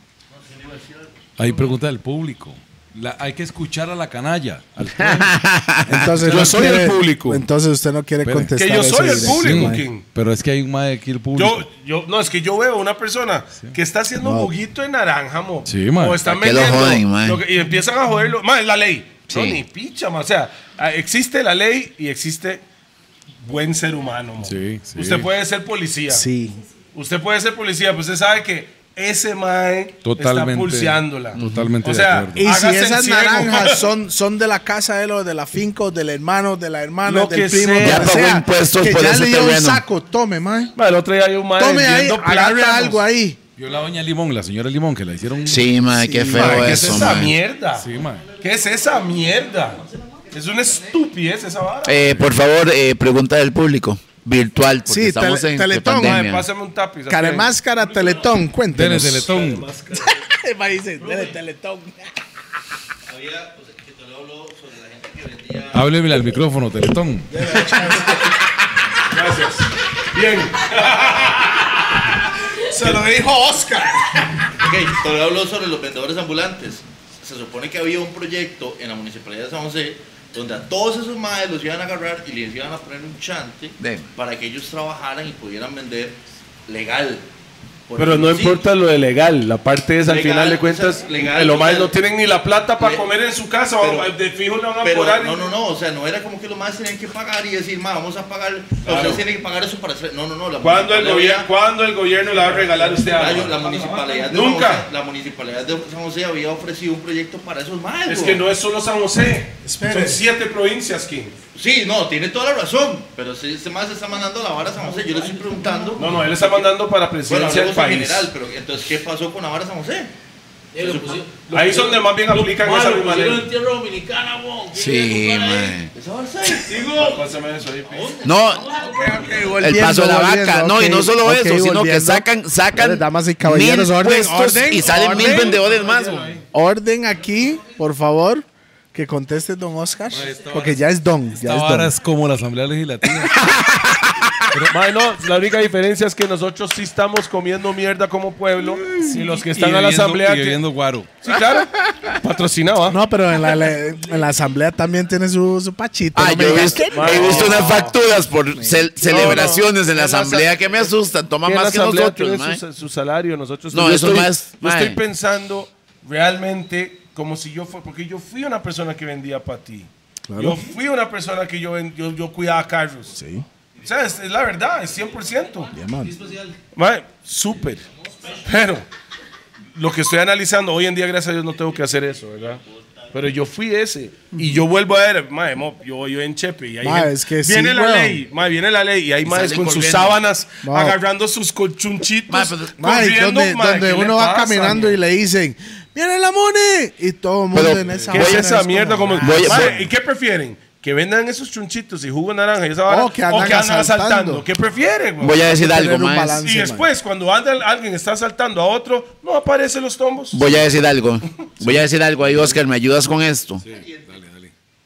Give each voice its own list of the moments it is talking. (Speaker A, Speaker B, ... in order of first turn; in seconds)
Speaker A: 0.3-1.8, 103.6-104.3, 114.6-116.4, 120.7-125.8, 127.0-127.2, 127.9-129.6, 174.8-176.6, 178.0-178.5
Speaker B: 1.4-6.8, 8.2-11.7, 15.7-16.2, 24.4-25.3, 30.0-32.4, 43.6-45.8, 47.7-48.2, 58.7-59.7, 65.7-67.5, 140.1-143.5, 149.1-151.2, 213.6-214.5
Speaker C: 5.0-6.1, 16.2-17.4, 19.3-19.6, 31.4-31.7, 37.8-39.8, 45.5-47.4, 51.9-56.5, 83.8-84.1, 124.7-125.9, 128.2-128.8, 129.5-136.4, 143.3-144.2, 156.2-162.6, 163.7-165.0, 189.2-190.2, 192.3-192.8, 197.5-198.5, 199.2-199.8, 205.2-206.4, 210.3-213.6
Speaker D: 5.9-9.8, 14.2-14.5, 26.1-26.6, 32.4-40.7, 41.6-43.4, 45.9-47.0, 54.9-56.3, 57.1-59.3, 60.1-62.1, 67.3-68.5, 72.7-74.3, 109.6-110.2, 128.9-135.6, 136.5-141.9, 152.9-157.9, 158.6-158.9, 170.3-170.7, 173.1-173.4, 175.7-176.2, 186.8-188.2, 190.6-191.0, 192.8-199.9, 202.9-204.4, 205.5-206.9
Speaker E: 6.3-7.4, 8.6-10.1, 11.3-22.6, 23.4-26.2, 26.9-33.8, 37.0-38.2, 40.8-43.0, 46.3-52.2, 56.0-57.6, 59.3-60.1, 69.1-71.5, 88.0-95.5, 98.8-99.2, 100.6-104.9, 108.1-111.4, 116.0-118.3, 121.5-123.5, 126.7-128.2, 134.1-136.4, 144.7-150.6, 151.2-153.0, 156.3-158.0, 159.0-160.9, 161.4-173.2, 173.8-175.7, 176.7-177.8, 178.4-178.8, 179.7-194.9, 197.8-205.4, 206.4-210.6
Speaker F: 63.0-65.9, 74.5-87.3, 87.9-88.7, 90.0-92.0, 92.8-93.1, 93.8-94.1, 94.8-101.5, 102.8-108.5, 111.5-116.7, 117.3-120.1, 120.8-121.3, 125.9-127.1